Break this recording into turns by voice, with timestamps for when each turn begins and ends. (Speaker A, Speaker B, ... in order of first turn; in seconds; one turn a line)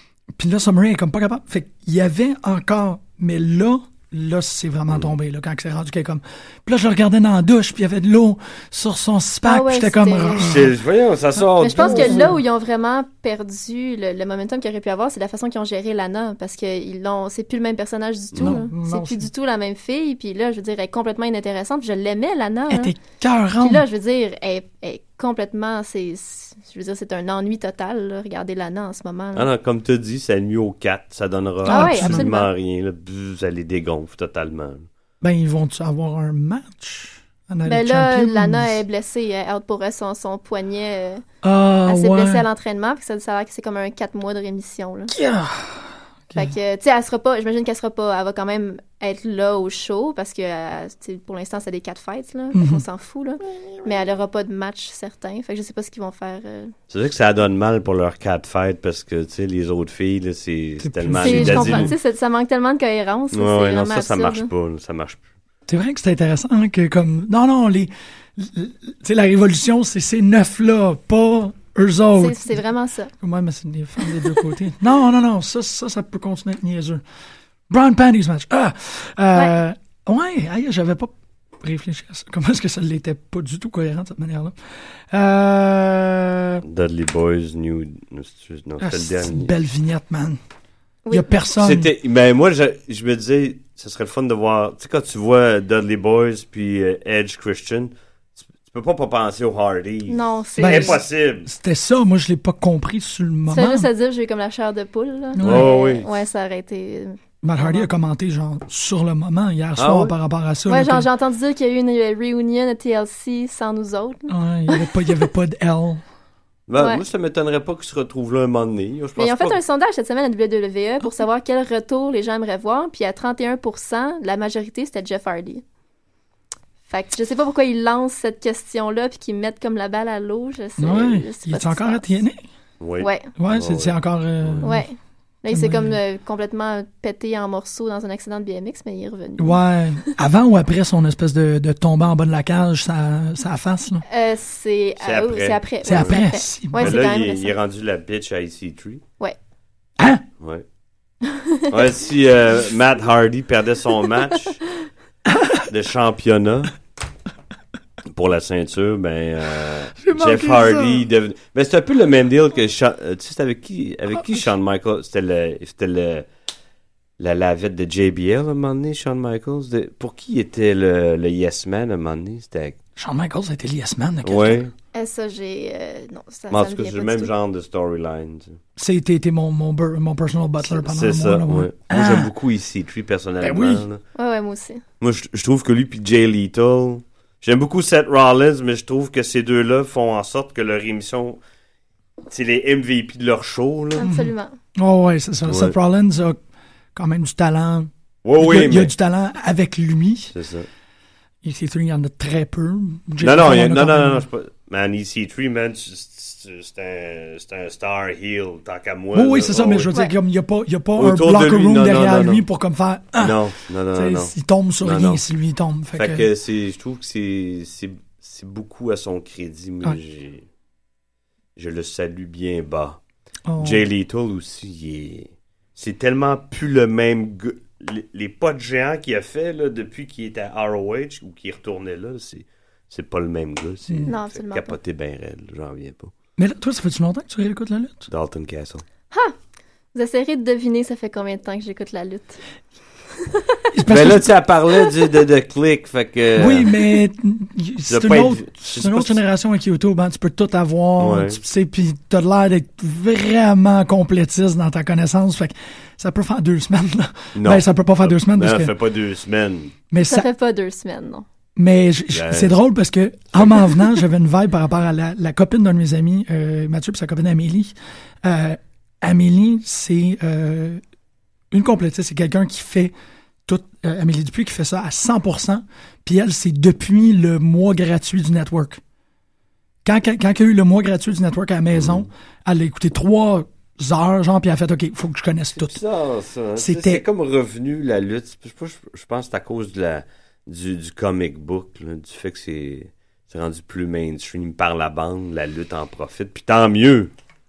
Speaker A: 0.4-10.7
Speaker B: 9.4-10.6
Speaker C: 10.4-12.4
Speaker B: 11.6-23.0
Speaker A: 11.7-12.4
Speaker C: 18.3-18.6
Speaker A: 18.4-19.3
Speaker A: 22.7-23.8
Speaker B: 23.6-29.5
Speaker C: 29.3-34.9
Speaker A: 31.7-32.3
Speaker B: 31.7-32.5
Speaker A: 35.2-38.8
Speaker B: 37.6-41.2
Speaker A: 41.4-42.4
Speaker B: 41.9-45.1
Speaker A: 45.1-46.5
Speaker B: 46.4-56.7
Speaker A: 52.5-52.8
Speaker C: 56.9-61.9
Speaker A: 60.8-61.9
Speaker B: 61.2-64.5
Speaker C: 63.3-65.2
Speaker A: 65.7-72.6
Speaker B: 72.2-73.1
Speaker A: 73.2-77.0
Speaker A: 77.7-84.5
Speaker A: 85.1-86.6
Speaker C: 86.6-89.5
Speaker A: 88.8-90.4
Speaker B: 91.0-91.4
Speaker A: 91.1-91.9
Speaker C: 91.5-97.9
Speaker C: 98.6-101.5
Speaker B: 100.1-101.0
Speaker A: 100.6-103.9
Speaker B: 103.5-107.9
Speaker A: 105.3-105.7
Speaker C: 105.4-106.1
Speaker A: 107.4-111.1
Speaker C: 109.8-110.1
Speaker B: 110.7-115.1
Speaker A: 114.3-116.0
Speaker C: 116.7-119.6
Speaker B: 119.2-125.6
Speaker B: 126.9-132.2
Speaker A: 130.8-132.4
Speaker C: 132.8-134.7
Speaker B: 133.0-133.3
Speaker A: 133.4-134.8
Speaker B: 134.6-140.1
Speaker A: 135.5-136.0
Speaker A: 139.4-144.0
Speaker B: 144.1-147.5
Speaker C: 145.0-146.2
Speaker A: 145.8-146.9
Speaker C: 146.7-149.0
Speaker C: 151.7-154.6
Speaker A: 155.3-155.6
Speaker C: 155.7-156.7
Speaker C: 158.1-166.3
Speaker A: 160.0-161.0
Speaker C: 167.2-172.8
Speaker A: 173.0-174.6
Speaker C: 174.2-174.7
Speaker B: 174.9-177.3
Speaker C: 176.5-178.6
Speaker A: 178.8-182.3
Speaker C: 180.6-184.0
Speaker A: 183.4-183.8
Speaker B: 184.2-184.8
Speaker C: 185.0-191.4
Speaker C: 192.3-194.1
Speaker B: 193.9-194.5
Speaker A: 194.0-196.4
Speaker C: 195.5-195.7
Speaker A: 196.9-200.3
Speaker C: 198.2-198.9
Speaker C: 200.3-200.7
Speaker A: 201.4-204.2
Speaker C: 203.2-209.9
Speaker A: 209.1-213.4
Speaker C: 211.0-212.4
Speaker C: 213.2-215.2
Speaker A: 213.9-216.3
Speaker C: 215.9-220.4
Speaker C: 221.6-223.0
Speaker A: 223.5-223.8
Speaker C: 223.6-236.1
Speaker B: 234.1-234.8
Speaker A: 236.4-238.1
Speaker C: 238.1-238.8
Speaker B: 239.9-242.4
Speaker B: 243.3-243.6
Speaker A: 243.7-244.3
Speaker C: 243.9-246.9
Speaker A: 246.3-258.7
Speaker C: 247.9-249.2
Speaker C: 251.0-251.4
Speaker C: 257.3-259.7
Speaker A: 259.9-260.3
Speaker B: 260.1-261.2
Speaker A: 261.6-270.8
Speaker C: 262.1-262.6
Speaker C: 263.3-263.7
Speaker A: 271.5-272.9
Speaker A: 273.5-278.8
Speaker A: 279.8-285.8
Speaker C: 281.7-282.1
Speaker C: 285.6-297.1
Speaker A: 286.6-287.0